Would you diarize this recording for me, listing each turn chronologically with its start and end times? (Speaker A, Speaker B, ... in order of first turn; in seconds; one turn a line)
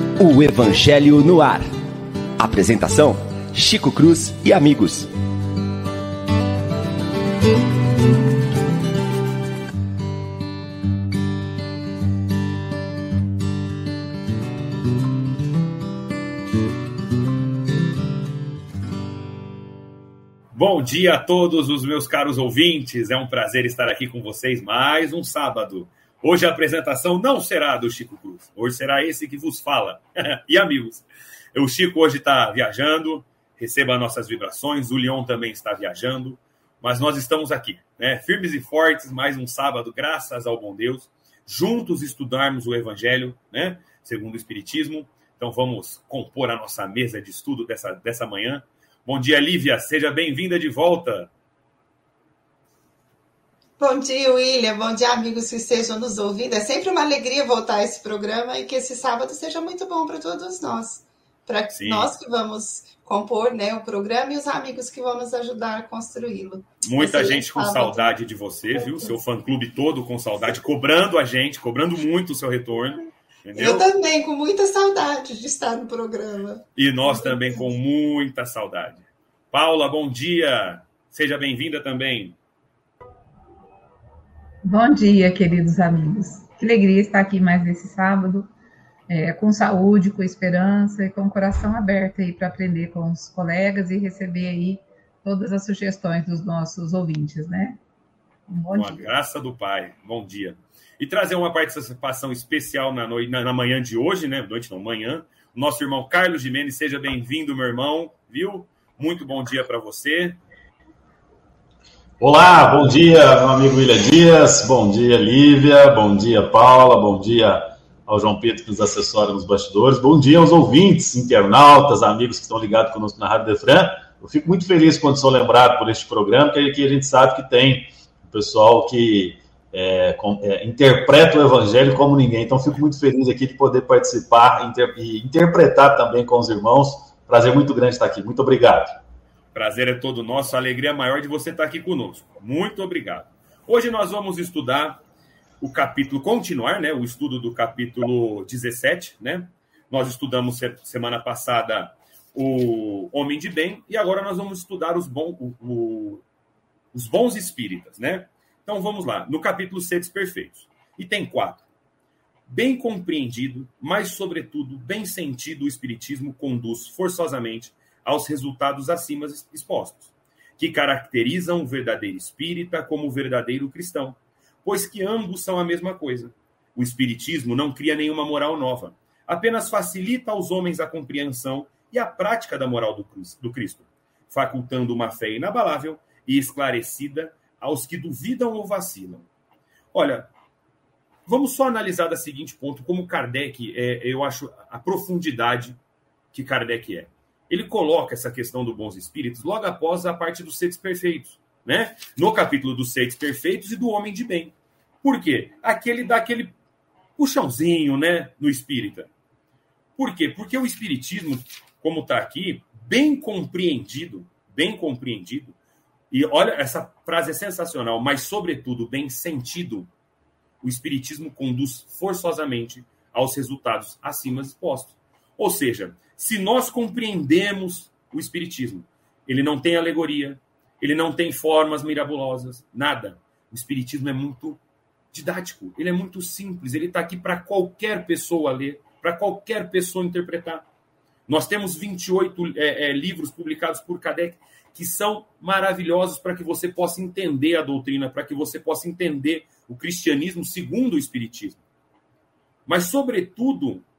Speaker A: 0.2-1.7
Speaker A: 2.4-5.1
Speaker B: 20.5-51.3
Speaker C: 53.8-68.1
Speaker B: 61.7-62.1
Speaker B: 66.8-73.9
Speaker C: 68.8-69.1
Speaker C: 73.5-77.7
Speaker B: 76.8-82.3
Speaker D: 84.6-88.5
Speaker D: 89.1-97.8
Speaker D: 98.5-99.1
Speaker B: 98.7-110.4
Speaker E: 112.2-139.0
Speaker B: 139.5-145.0
Speaker B: 145.6-156.2
Speaker B: 156.9-161.6
Speaker B: 162.5-189.3
Speaker B: 189.9-190.3
Speaker B: 191.3-195.8
Speaker B: 196.3-206.5
Speaker B: 207.2-209.1
Speaker B: 210.0-215.6
Speaker B: 216.1-219.9
Speaker B: 220.6-234.6
Speaker B: 235.1-240.7
Speaker B: 241.3-251.6
Speaker B: 252.7-253.8